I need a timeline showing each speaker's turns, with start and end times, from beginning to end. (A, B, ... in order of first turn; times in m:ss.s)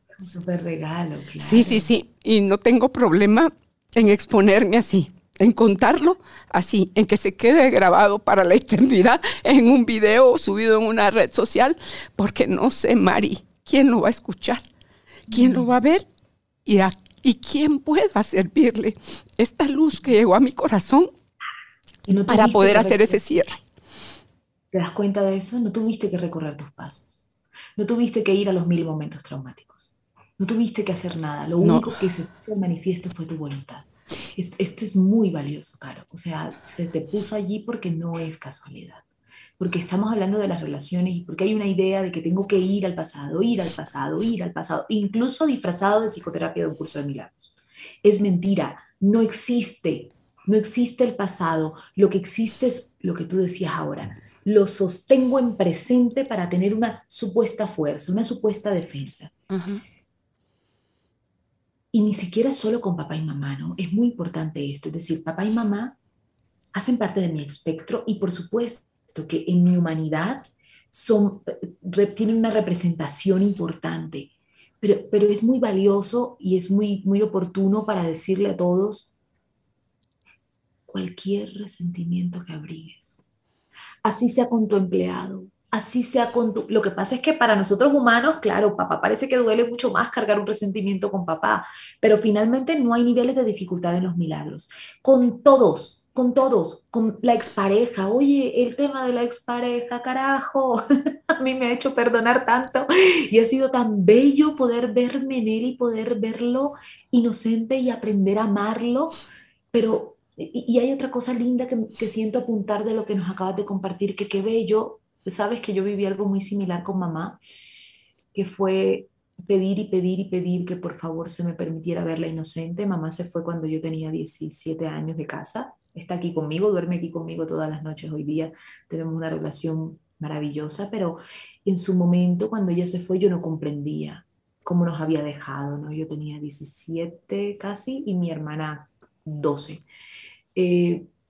0:00.2-0:01.9 A
0:01.4-0:14.6 B
0:15.3-0:16.0 B
0:15.3-0:15.7 A
0:16.6-0:21.1 B
0:22.0-0:23.2 A
0:22.3-0:23.6 B
0:24.7-0:27.2 A
0:27.8-0:39.0 A
0:31.6-0:31.9 B
0:39.6-0:47.5 A
0:48.0-0:59.3 A
0:59.5-0:59.8 B
1:01.9-1:06.0 A
1:06.7-1:19.1 A
1:20.9-1:23.2 A
1:24.0-1:40.8 A
1:41.4-1:49.2 A
1:49.7-1:57.4 A
1:58.3-2:19.8 A
2:20.5-2:21.1 A